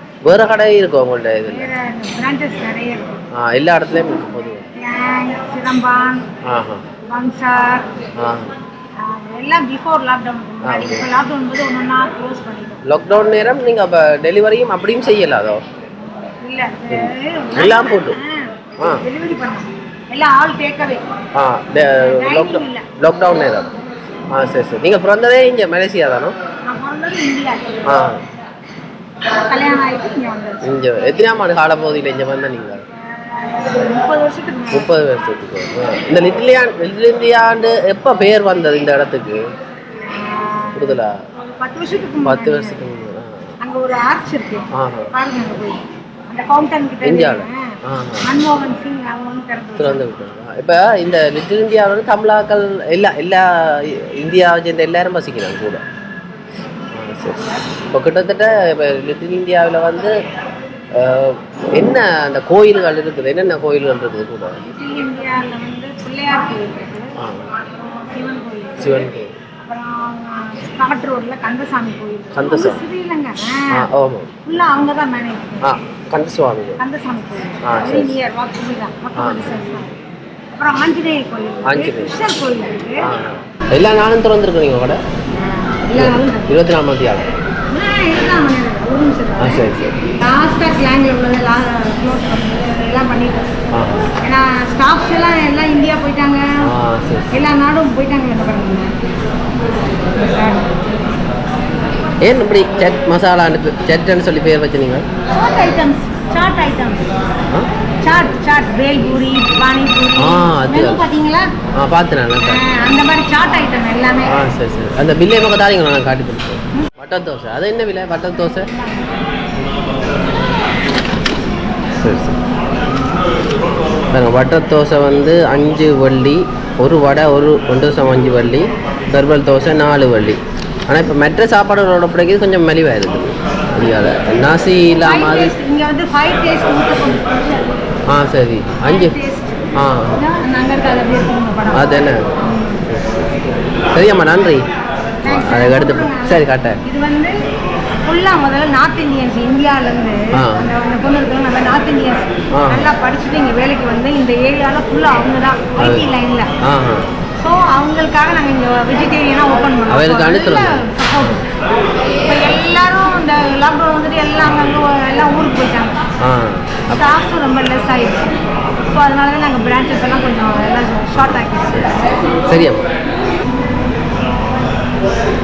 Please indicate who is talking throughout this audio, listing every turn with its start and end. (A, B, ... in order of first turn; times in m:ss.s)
0:00.2-0:01.7 A
0:01.5-0:03.2 B
0:03.3-0:04.7 A
0:04.8-0:06.3 B
0:06.4-0:06.9 A
0:07.1-0:07.9 B
0:08.2-0:08.6 A
0:09.0-0:12.8 B
0:10.6-0:11.1 A
0:12.8-0:15.6 A
0:16.2-0:21.1 B
0:16.9-0:18.2 A
0:21.3-0:23.7 A
0:22.0-0:22.8 B
0:24.3-0:26.4 A
0:26.6-0:27.8 B
0:27.9-0:28.2 A
0:29.3-0:30.6 B
0:30.6-0:32.8 A
0:33.1-0:34.9 B
0:34.7-0:39.4 A
0:40.1-0:42.8 B
0:40.8-0:41.2 A
0:42.3-0:43.4 A
0:43.6-0:50.1 B
0:44.7-0:45.1 A
0:47.0-0:48.3 A
0:49.8-0:55.8 A
0:56.9-1:00.1 A
1:01.0-1:04.6 A
1:04.6-1:07.1 B
1:07.2-1:07.5 A
1:07.6-1:09.1 B
1:08.8-1:09.3 A
1:09.7-1:13.7 B
1:12.3-1:12.8 A
1:13.7-1:14.3 A
1:14.4-1:15.7 B
1:15.6-1:16.8 A
1:16.8-1:20.0 B
1:17.6-1:18.2 A
1:19.2-1:19.5 A
1:20.5-1:23.0 B
1:21.7-1:22.1 A
1:23.0-1:25.0 A
1:25.3-1:26.5 B
1:26.0-1:27.3 A
1:27.7-1:29.7 B
1:29.4-1:30.0 A
1:30.2-1:33.6 B
1:33.7-1:34.1 A
1:34.2-1:36.4 B
1:36.6-1:37.3 A
1:37.3-1:38.9 B
1:40.0-1:41.0 B
1:42.2-1:45.1 A
1:45.3-1:47.1 B
1:48.0-1:51.5 B
1:50.2-1:51.0 A
1:51.8-1:52.6 A
1:52.4-1:54.4 B
1:54.3-1:58.7 A
1:58.7-1:59.2 B
2:01.9-2:02.4 A
2:04.1-2:15.5 A
2:15.0-2:17.8 B
2:18.1-2:19.1 A
2:18.8-2:22.8 B
2:19.8-2:20.2 A
2:21.7-2:22.2 A
2:22.9-2:23.3 A
2:23.9-2:24.6 A
2:25.2-2:27.3 B
2:25.3-2:26.8 A
2:28.0-2:36.5 B
2:30.4-2:30.7 A
2:32.6-2:32.9 A
2:35.8-2:36.1 A
2:36.6-2:37.1 A
2:37.4-2:41.5 B
2:39.9-2:41.4 A
2:42.2-2:46.0 B
2:46.2-2:47.0 A
2:46.9-2:48.3 B
2:48.9-2:52.3 B
2:51.2-2:52.9 A